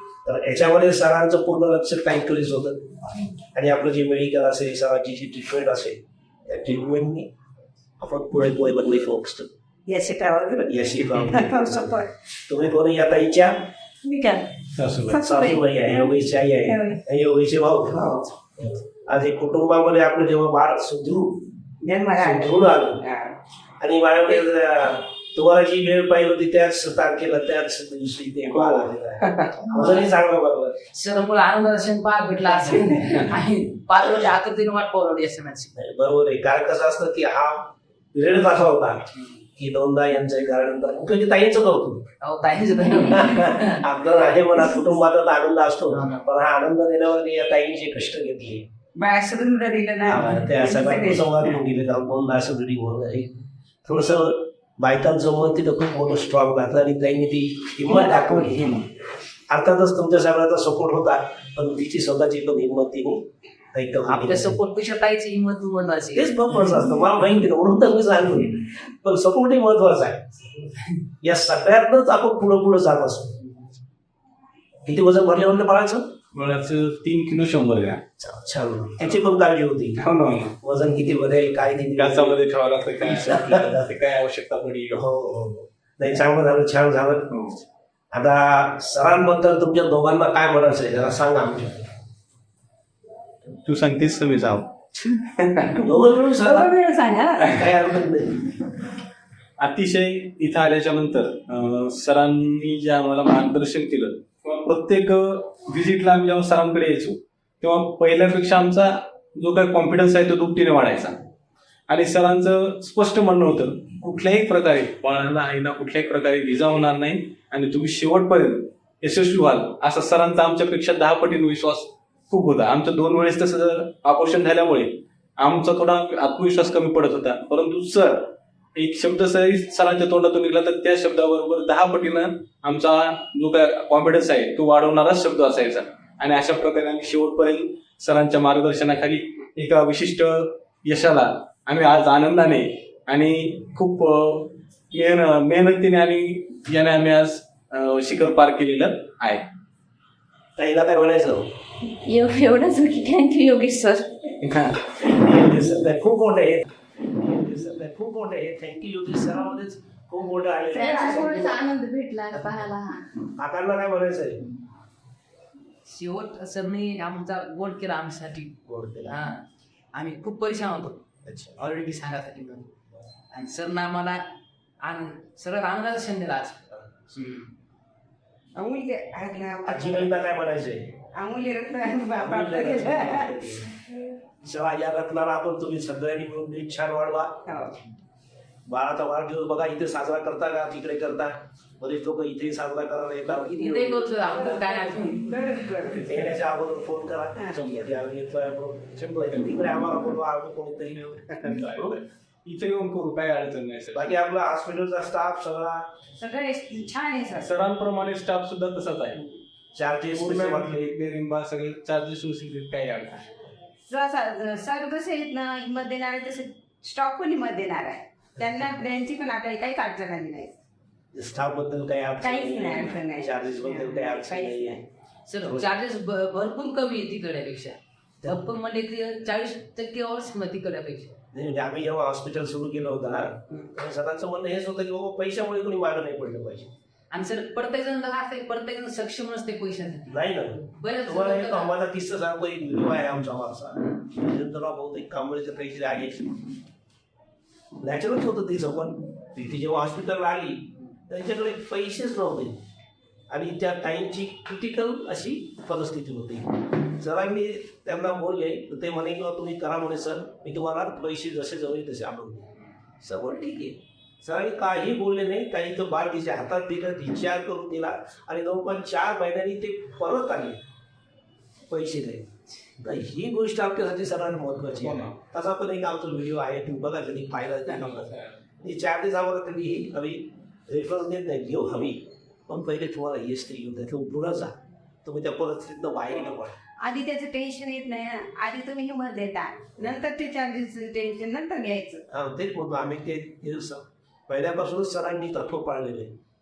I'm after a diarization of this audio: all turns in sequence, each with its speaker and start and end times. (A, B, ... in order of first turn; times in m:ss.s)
0:00.2-0:02.9 A
0:03.5-0:07.3 A
0:08.0-0:09.5 A
0:09.9-0:12.1 B
0:10.6-0:13.7 A
0:14.0-0:16.0 B
0:14.7-0:15.2 C
0:15.2-0:21.5 A
0:16.7-0:17.0 B
0:17.9-0:18.3 B
0:21.8-0:23.4 B
0:22.2-0:23.0 A
0:23.8-0:30.8 A
0:28.5-0:28.8 C
0:29.7-0:30.0 D
0:30.9-0:35.7 D
0:35.8-0:42.0 A
0:42.2-0:43.8 D
0:43.0-0:48.6 A
0:49.0-0:51.6 B
0:50.1-0:58.7 A
0:57.9-0:58.8 B
0:59.5-1:04.6 A
1:04.0-1:06.4 D
1:06.1-1:10.3 A
1:11.2-1:13.4 A
1:14.8-1:16.1 A
1:16.3-1:18.0 C
1:18.2-1:20.0 A
1:20.0-1:20.5 C
1:20.6-1:22.4 A
1:22.0-1:25.0 C
1:23.0-1:23.8 A
1:24.9-1:27.3 A
1:27.3-1:27.6 C
1:28.1-1:31.9 A
1:33.6-1:35.8 C
1:35.8-1:36.7 A
1:36.4-1:37.6 B
1:37.4-1:37.7 C
1:37.4-1:38.5 A
1:39.6-1:51.2 C
1:51.9-2:29.5 C
2:30.6-2:31.4 A
2:32.0-2:34.2 E
2:34.4-2:34.9 C
2:35.0-2:41.4 A
2:40.7-2:43.0 E
2:40.8-2:41.6 B
2:43.3-2:44.4 A
2:45.8-2:49.4 D
2:48.6-2:49.2 A
2:49.9-2:51.0 D
2:51.2-2:51.6 A
2:51.6-2:52.7 D
2:53.3-2:54.2 D
2:54.8-2:56.6 D
2:58.5-3:00.1 B
2:59.6-3:00.9 A
3:01.1-3:03.4 B
3:02.1-3:03.7 A
3:04.4-3:07.4 A
3:07.5-3:07.8 B
3:08.6-3:14.1 A
3:13.5-3:15.4 D
3:14.4-3:16.1 B
3:16.0-3:21.3 A
3:17.5-3:18.0 C
3:19.0-3:19.4 C
3:21.2-3:24.1 C
3:23.9-3:25.9 A
3:26.2-3:27.5 B
3:27.3-3:29.2 C
3:29.7-3:30.9 A
3:30.1-3:33.3 C
3:33.8-3:40.5 B
3:41.1-3:44.8 A
3:42.2-3:44.8 B
3:45.2-3:51.1 D
3:51.3-3:56.7 A
3:57.1-4:00.1 D
4:00.1-4:06.5 A
4:00.7-4:01.8 D
4:07.8-4:12.6 A
4:13.3-4:22.5 A
4:23.0-4:30.6 A
4:31.7-4:32.3 A
4:32.8-4:46.6 A
4:34.8-4:35.2 C
4:37.6-4:38.4 C
4:46.8-4:52.0 B
4:52.1-4:56.1 A